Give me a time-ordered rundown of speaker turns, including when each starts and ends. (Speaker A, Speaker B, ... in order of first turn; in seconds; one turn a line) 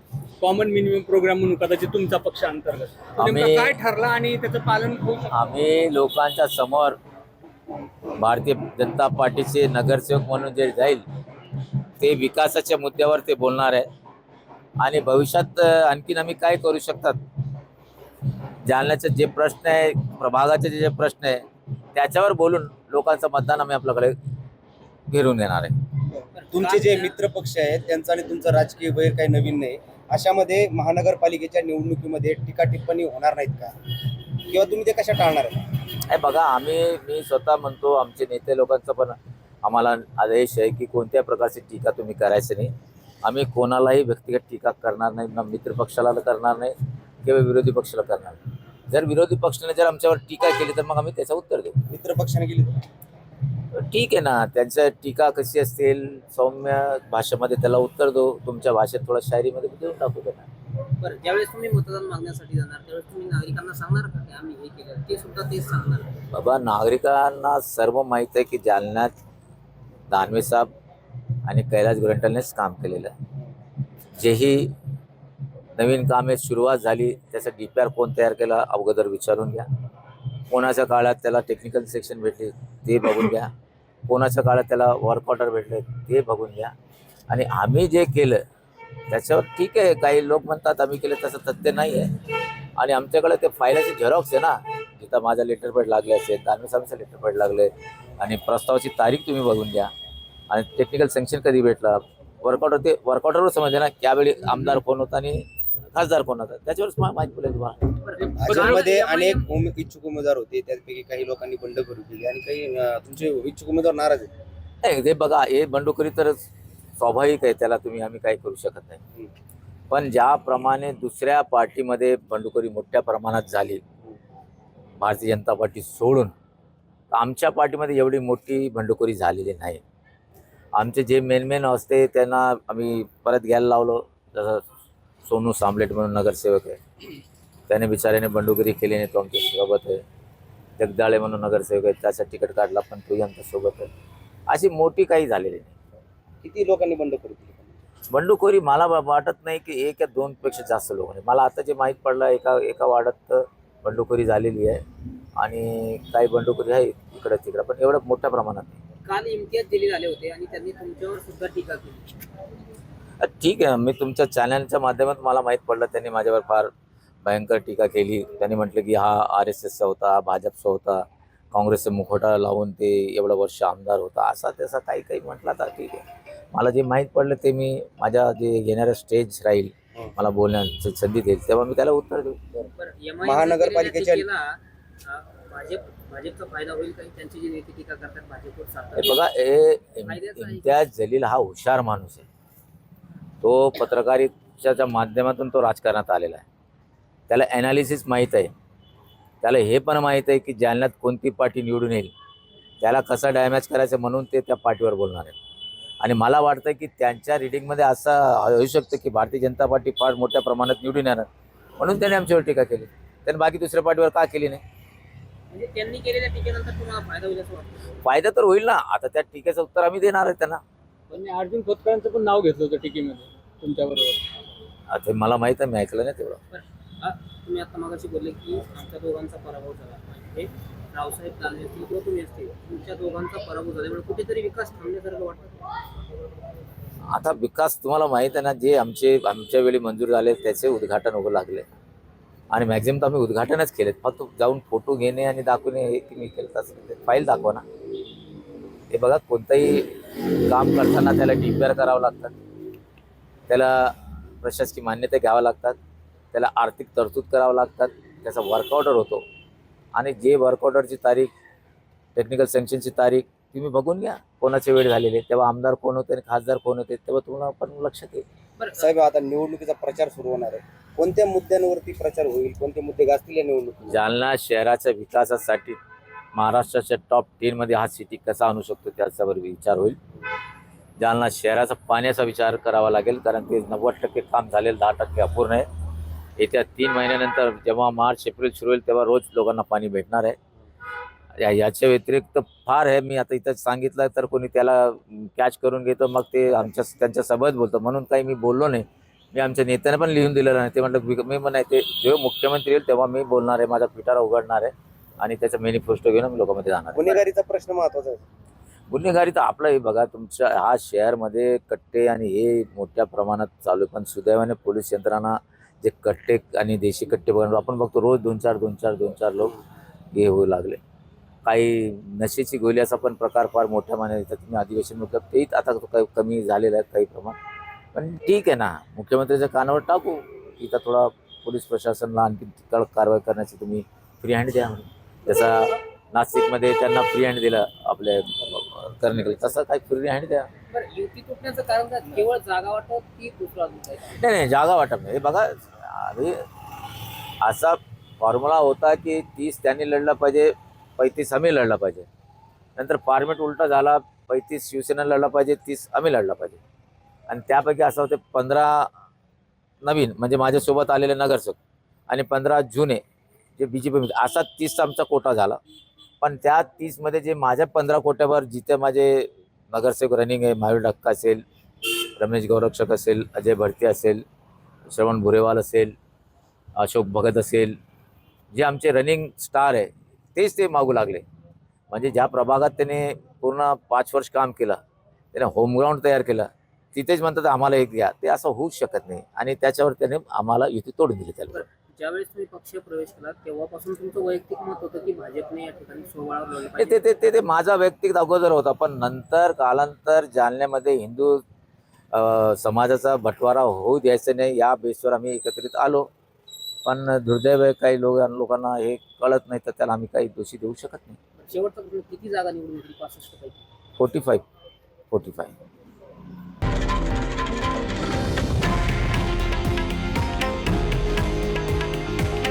Speaker A: 0.4-5.5
Speaker B: 3.1-3.8
Speaker B: 5.3-7.0
Speaker B: 8.2-11.0
Speaker B: 12.0-13.9
Speaker B: 14.8-17.2
Speaker B: 18.6-21.4
Speaker B: 21.9-24.1
Speaker B: 25.1-25.8
Speaker C: 26.3-27.1
Speaker D: 26.5-33.7
Speaker D: 34.5-35.6
Speaker B: 35.9-42.7
Speaker B: 43.2-48.4
Speaker B: 48.9-51.8
Speaker D: 51.9-52.7
Speaker B: 53.7-60.4
Speaker C: 61.0-66.2
Speaker B: 66.3-69.1
Speaker B: 70.1-70.7
Speaker B: 71.5-73.1
Speaker B: 74.2-74.7
Speaker B: 75.8-79.7
Speaker B: 80.5-83.5
Speaker B: 84.1-86.7
Speaker B: 87.3-88.4
Speaker B: 89.1-92.1
Speaker B: 92.8-99.9
Speaker B: 100.5-107.8
Speaker C: 108.0-109.5
Speaker D: 108.4-114.3
Speaker A: 108.5-108.9
Speaker B: 114.8-116.4
Speaker B: 117.0-119.0
Speaker B: 119.9-123.8
Speaker B: 125.0-126.3
Speaker B: 127.1-129.8
Speaker B: 130.8-134.6
Speaker B: 135.2-136.8
Speaker B: 137.7-140.0
Speaker B: 140.8-143.9
Speaker B: 144.5-145.7
Speaker D: 146.4-147.8
Speaker B: 148.1-154.8
Speaker B: 155.4-158.8
Speaker C: 159.0-162.2
Speaker B: 163.2-166.7
Speaker B: 167.2-182.4
Speaker C: 182.7-189.2
Speaker D: 183.2-184.2
Speaker B: 188.9-192.2
Speaker C: 190.0-190.8
Speaker B: 193.4-196.4
Speaker B: 197.3-198.5
Speaker B: 199.4-202.1
Speaker B: 202.8-205.3
Speaker B: 206.0-211.3
Speaker B: 211.8-214.6
Speaker C: 215.5-217.8
Speaker B: 218.0-220.6
Speaker A: 221.1-224.2
Speaker B: 224.9-226.4
Speaker C: 226.5-235.6
Speaker B: 237.1-241.7
Speaker B: 242.5-247.6
Speaker B: 248.9-252.3
Speaker B: 253.5-255.8
Speaker B: 256.3-259.2
Speaker B: 259.9-261.3
Speaker B: 262.1-268.2
Speaker C: 268.6-268.9
Speaker D: 268.8-274.0
Speaker B: 273.9-275.8
Speaker B: 276.3-280.0
Speaker B: 281.0-285.6
Speaker B: 286.4-290.4
Speaker B: 291.4-307.1
Speaker D: 306.9-308.2
Speaker B: 308.9-319.6
Speaker B: 320.1-320.8
Speaker B: 321.4-327.4
Speaker B: 327.9-340.5
Speaker C: 340.7-344.2
Speaker B: 344.1-346.4
Speaker B: 347.4-352.1
Speaker B: 352.8-356.6
Speaker B: 357.3-358.9
Speaker B: 359.8-361.6
Speaker B: 362.1-363.0
Speaker B: 363.6-365.6
Speaker B: 366.2-374.2
Speaker B: 374.9-375.9
Speaker B: 376.8-377.8
Speaker B: 378.5-381.2
Speaker B: 381.9-384.8
Speaker B: 385.3-391.6
Speaker C: 391.5-397.1
Speaker B: 396.8-401.4
Speaker B: 402.1-406.1
Speaker B: 406.8-411.2
Speaker C: 411.4-413.6
Speaker B: 414.0-414.4
Speaker B: 415.1-415.5